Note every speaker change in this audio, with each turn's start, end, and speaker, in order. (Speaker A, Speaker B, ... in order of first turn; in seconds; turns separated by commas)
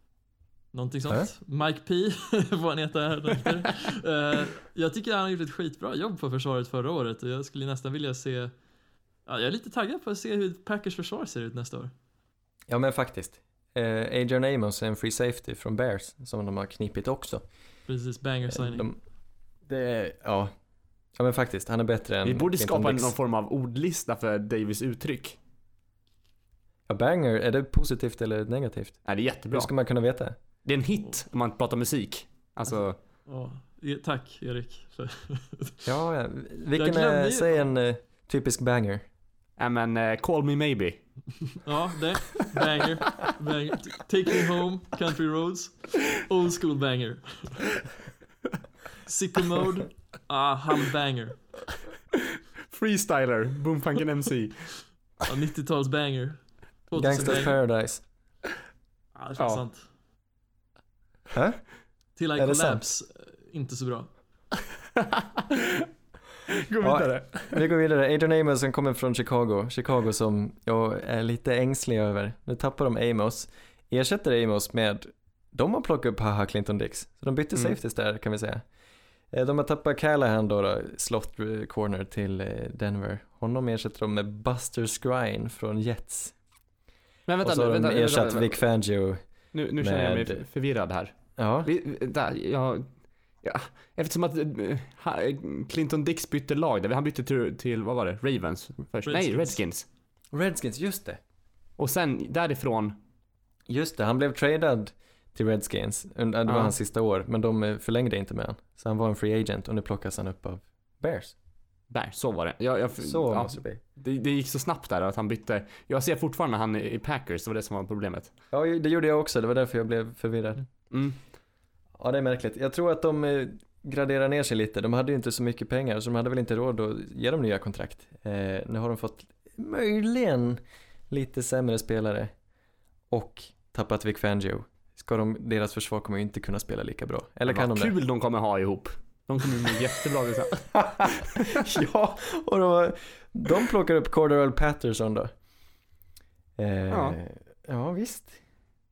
Speaker A: 0.7-8.5, Speaker A: 9.2-11.9, Speaker B: 12.7-17.4, Speaker A: 17.9-18.9, Speaker B: 18.5-19.0, Speaker B: 19.6-20.5, Speaker B: 21.1-23.1, Speaker C: 22.2-25.4, Speaker B: 26.9-30.4, Speaker C: 29.1-29.7, Speaker C: 30.6-33.0, Speaker A: 33.2-35.8, Speaker B: 35.8-39.0, Speaker A: 36.8-37.6, Speaker C: 39.6-41.0, Speaker A: 41.6-47.6, Speaker A: 49.0-51.4, Speaker C: 52.6-54.7, Speaker A: 55.2-57.6, Speaker B: 57.0-58.0, Speaker A: 59.1-59.9, Speaker B: 61.3-61.6, Speaker A: 62.1-64.1, Speaker B: 62.4-62.9, Speaker C: 65.0-65.9, Speaker C: 66.5-67.6, Speaker B: 66.8-78.6, Speaker B: 79.3-86.3, Speaker C: 87.3-88.6, Speaker B: 87.4-89.2, Speaker C: 89.5-91.1, Speaker B: 89.8-90.4, Speaker B: 91.4-91.7, Speaker C: 91.6-92.9, Speaker C: 93.4-99.8, Speaker A: 99.0-99.6, Speaker B: 100.3-101.2, Speaker C: 101.8-103.0, Speaker B: 103.7-111.3, Speaker C: 106.5-106.7, Speaker C: 111.9-118.3, Speaker B: 113.0-113.8, Speaker B: 118.5-120.7, Speaker C: 120.9-121.2, Speaker B: 122.0-132.3, Speaker B: 133.1-137.9, Speaker C: 137.5-141.6, Speaker B: 140.8-145.3, Speaker B: 146.6-148.4, Speaker C: 146.9-147.2